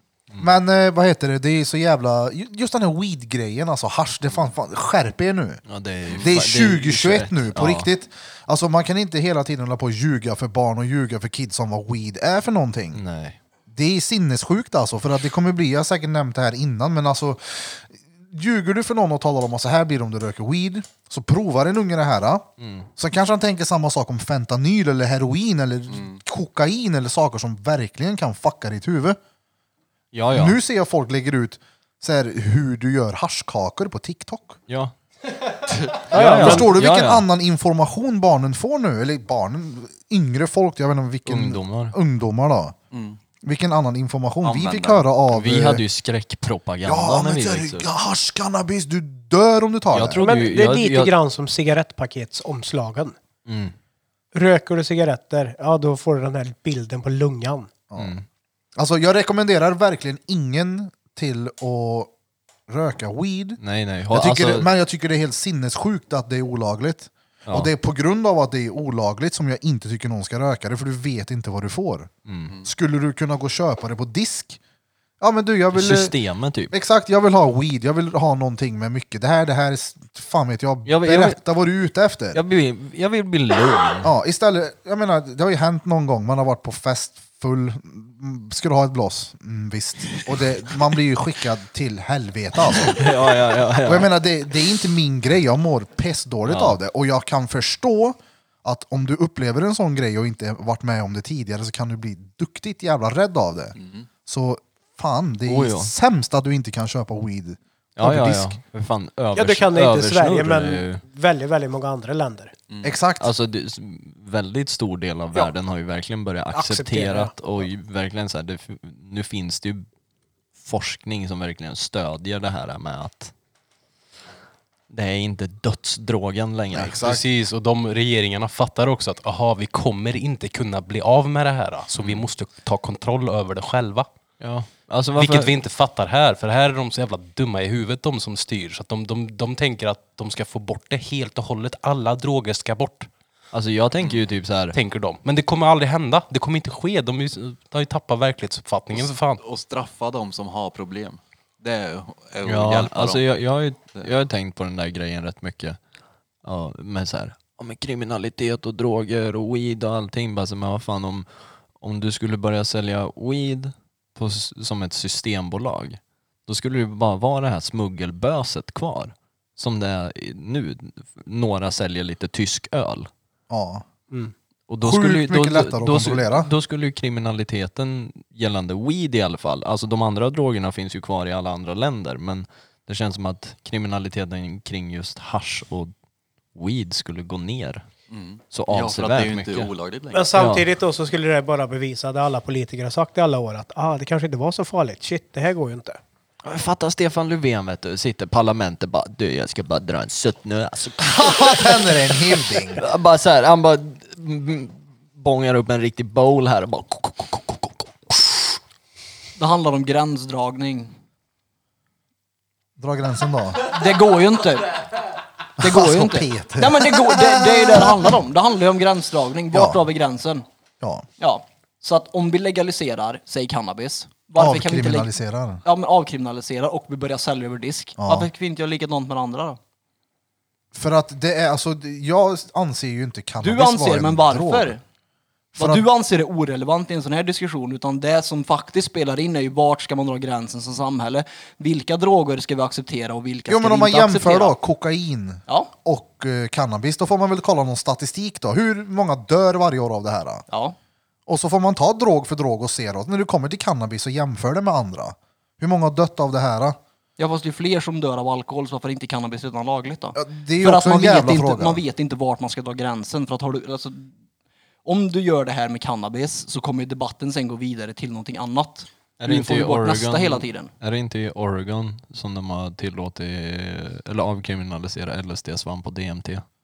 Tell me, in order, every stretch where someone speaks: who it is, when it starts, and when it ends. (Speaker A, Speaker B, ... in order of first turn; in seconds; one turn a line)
Speaker A: 0.4-5.6
Speaker B: 5.7-7.9
Speaker A: 6.2-13.0
Speaker B: 12.9-13.4
Speaker A: 13.7-22.5
Speaker B: 22.6-22.9
Speaker A: 23.0-29.2
Speaker C: 25.9-26.2
Speaker B: 30.1-30.6
Speaker A: 30.3-34.6
Speaker B: 34.7-34.9
Speaker C: 35.7-36.1
Speaker D: 36.1-36.7
Speaker B: 36.1-37.2
Speaker A: 36.1-42.8
Speaker B: 41.3-42.0
Speaker C: 42.9-43.2
Speaker A: 43.4-45.8
Speaker C: 44.4-45.1
Speaker B: 45.3-47.9
Speaker A: 46.9-50.2
Speaker B: 49.9-51.1
Speaker D: 50.2-53.2
Speaker B: 53.5-53.7
Speaker D: 54.3-57.7
Speaker B: 58.0-58.2
Speaker A: 58.8-62.1
Speaker A: 62.7-63.6
Speaker B: 63.6-64.7
Speaker A: 64.1-72.1
Speaker B: 72.3-72.5
Speaker A: 72.6-74.6
Speaker A: 75.2-76.2
Speaker B: 75.7-76.7
Speaker A: 76.7-82.4
Speaker B: 80.8-81.4
Speaker B: 82.3-84.1
Speaker A: 84.0-93.1
Speaker B: 92.8-94.1
Speaker A: 93.8-108.6
Speaker B: 96.5-96.8
Speaker C: 103.8-104.1
Speaker B: 105.5-105.9
Speaker B: 108.0-111.0
Speaker D: 109.3-112.5
Speaker C: 112.7-113.0
Speaker A: 112.8-113.3
Speaker B: 113.2-119.9
Speaker D: 116.5-117.3
Speaker B: 120.6-123.3
Speaker B: 124.9-127.1
Speaker A: 126.7-127.2
Speaker E: 127.0-134.1
Speaker B: 134.4-135.5
Speaker E: 135.2-143.1
Speaker B: 143.5-144.8
Speaker C: 144.0-144.3
Speaker E: 144.7-149.4
Speaker C: 149.0-154.1
Speaker B: 152.4-155.8
Speaker B: 156.4-173.1
Speaker A: 173.5-173.8
Speaker B: 174.7-185.9
Speaker A: 174.8-176.5
Speaker B: 186.6-187.8
Speaker C: 188.1-190.4
Speaker B: 188.5-189.7
Speaker D: 190.1-196.0
Speaker B: 190.3-190.7
Speaker B: 196.4-202.2
Speaker A: 201.0-202.8
Speaker B: 202.8-208.6
Speaker F: 209.4-210.9
Speaker A: 212.8-213.7
Speaker F: 213.6-214.8
Speaker F: 215.6-220.5
Speaker A: 215.6-218.2
Speaker A: 219.5-219.8
Speaker A: 220.8-221.1
Speaker F: 221.2-225.1
Speaker A: 224.4-225.6
Speaker F: 225.6-229.6
Speaker A: 228.0-228.3
Speaker A: 230.7-234.8
Speaker F: 233.4-234.8
Speaker A: 235.6-235.8
Speaker F: 235.6-244.6
Speaker A: 243.5-250.4
Speaker F: 245.5-245.7
Speaker F: 250.5-250.8
Speaker A: 251.3-256.8
Speaker F: 257.2-264.1
Speaker A: 260.1-261.8
Speaker F: 264.9-270.7
Speaker B: 269.2-276.4